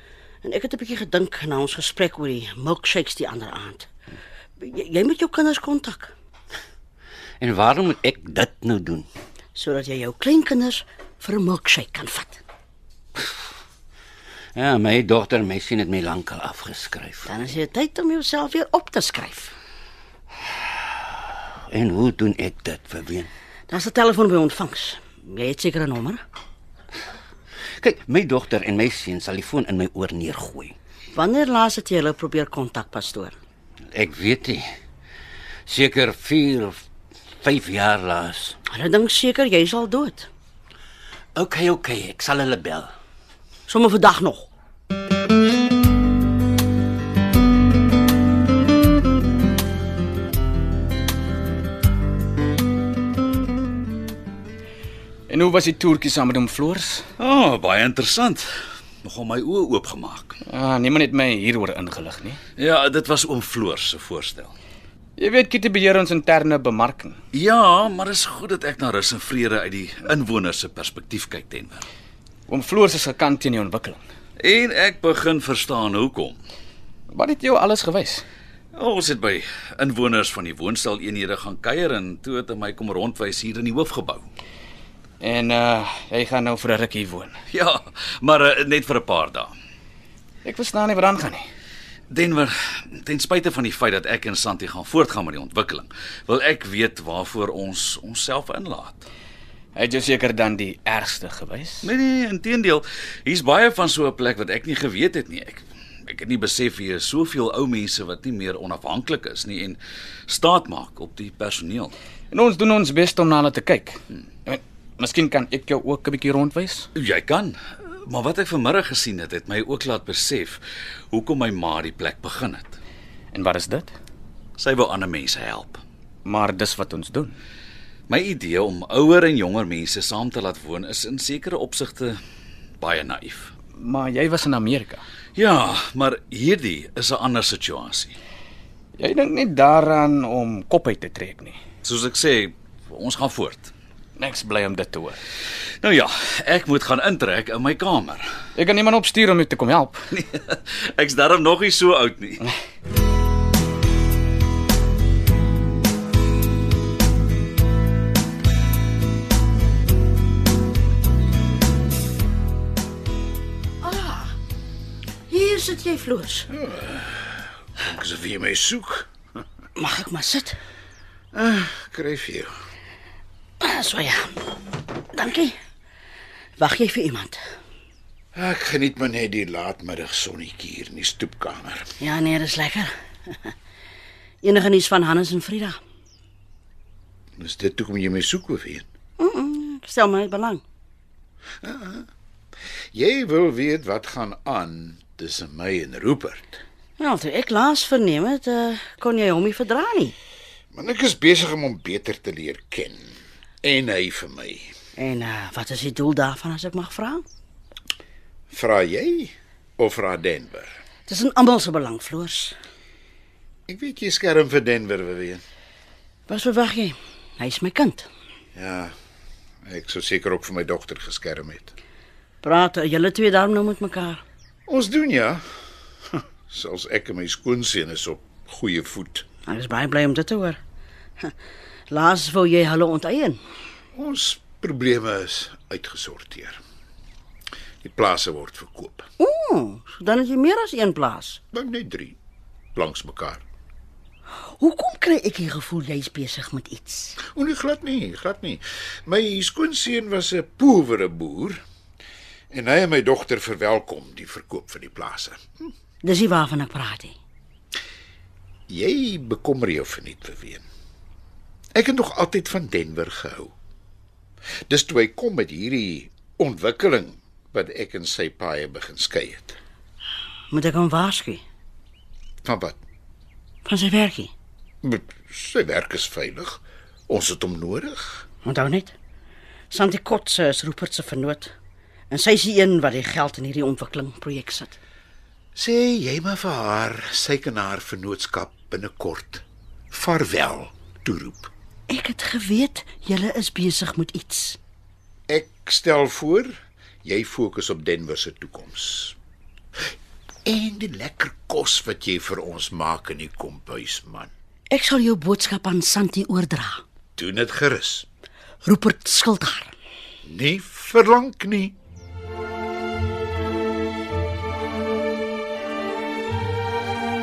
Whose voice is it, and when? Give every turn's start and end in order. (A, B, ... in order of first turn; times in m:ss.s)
0:00.4-0:03.9 A
0:04.6-0:06.1 A
0:07.4-0:09.1 B
0:09.5-0:12.4 A
0:14.5-0:17.3 B
0:17.2-0:19.5 A
0:21.7-0:23.3 B
0:23.7-0:26.2 A
0:27.8-0:30.8 B
0:31.1-0:33.4 A
0:33.9-0:34.6 B
0:35.7-0:36.8 B
0:37.4-0:38.6 B
0:38.7-0:40.3 A
0:41.4-0:42.9 B
0:43.7-0:44.5 A
0:55.3-0:57.0 C
0:57.2-0:58.5 D
0:59.0-1:00.4 D
1:00.4-1:02.4 C
1:02.6-1:04.5 D
1:05.2-1:07.2 C
1:07.3-1:11.9 D
1:12.5-1:14.0 C
1:14.4-1:16.4 D
1:17.1-1:18.2 C
1:18.7-1:24.3 D
1:25.2-1:27.3 C
1:27.5-1:29.5 D
1:30.4-1:31.4 C
1:32.1-1:39.1 D
1:39.7-1:41.9 C
1:41.8-1:51.9 D
1:52.3-1:56.9 C
1:56.9-2:00.6 D
2:01.1-2:02.8 D
2:03.3-2:03.9 C
2:04.6-2:05.8 D
2:06.2-2:07.4 C
2:08.1-2:12.2 D
2:12.8-2:13.5 D
2:13.7-2:15.0 C
2:15.4-2:18.2 D
2:19.0-2:21.6 C
2:21.8-2:23.7 D
2:24.2-2:25.2 C
2:25.8-2:28.3 D
2:28.6-2:30.1 C
2:30.1-2:32.4 D
2:43.8-2:44.3 A
2:45.3-2:46.5 A
2:46.5-2:49.1 E
2:49.8-2:50.6 A
2:51.3-2:52.5 E
2:53.6-2:54.5 A
2:55.1-2:55.5 A
2:56.6-2:57.4 A
2:58.3-3:01.9 E
3:02.0-3:03.5 A
3:04.4-3:05.8 A
3:07.4-3:08.8 E
3:09.2-3:10.6 A
3:11.6-3:12.0 E
3:12.9-3:16.6 E
3:17.0-3:20.1 A
3:20.7-3:24.7 E
3:25.0-3:27.2 A
3:28.5-3:30.8 E
3:31.1-3:32.6 A
3:33.7-3:35.4 E
3:36.3-3:38.1 A
3:38.5-3:38.9 E
3:39.6-3:41.7 E
3:42.4-3:44.2 A
3:44.7-3:45.4 E
3:46.1-3:49.2 E
3:49.4-3:50.6 A
3:51.9-3:53.4 A
3:53.9-3:56.6 E
3:57.8-3:59.1 E
3:59.2-4:01.4 A
4:01.5-4:02.2 E
4:02.7-4:03.4 E
4:04.5-4:07.2 A
4:07.2-4:11.6 E
4:12.5-4:15.4 E
4:16.0-4:17.1 A
4:18.7-4:20.6 E
4:21.7-4:23.5 E
4:24.7-4:29.6 E
4:30.5-4:31.4 A
4:32.4-4:32.8 E
4:33.6-4:34.3 A
4:34.8-4:38.2 E
4:38.4-4:38.9 A
4:39.7-4:41.5 A
4:42.1-4:44.8 A
4:45.5-4:51.5 E
4:51.9-4:54.6 A
4:55.3-4:59.2 E
5:00.4-5:04.3 E
5:04.7-5:06.8 A
5:07.2-5:08.1 E
5:08.6-5:09.7 A
5:10.2-5:11.7 E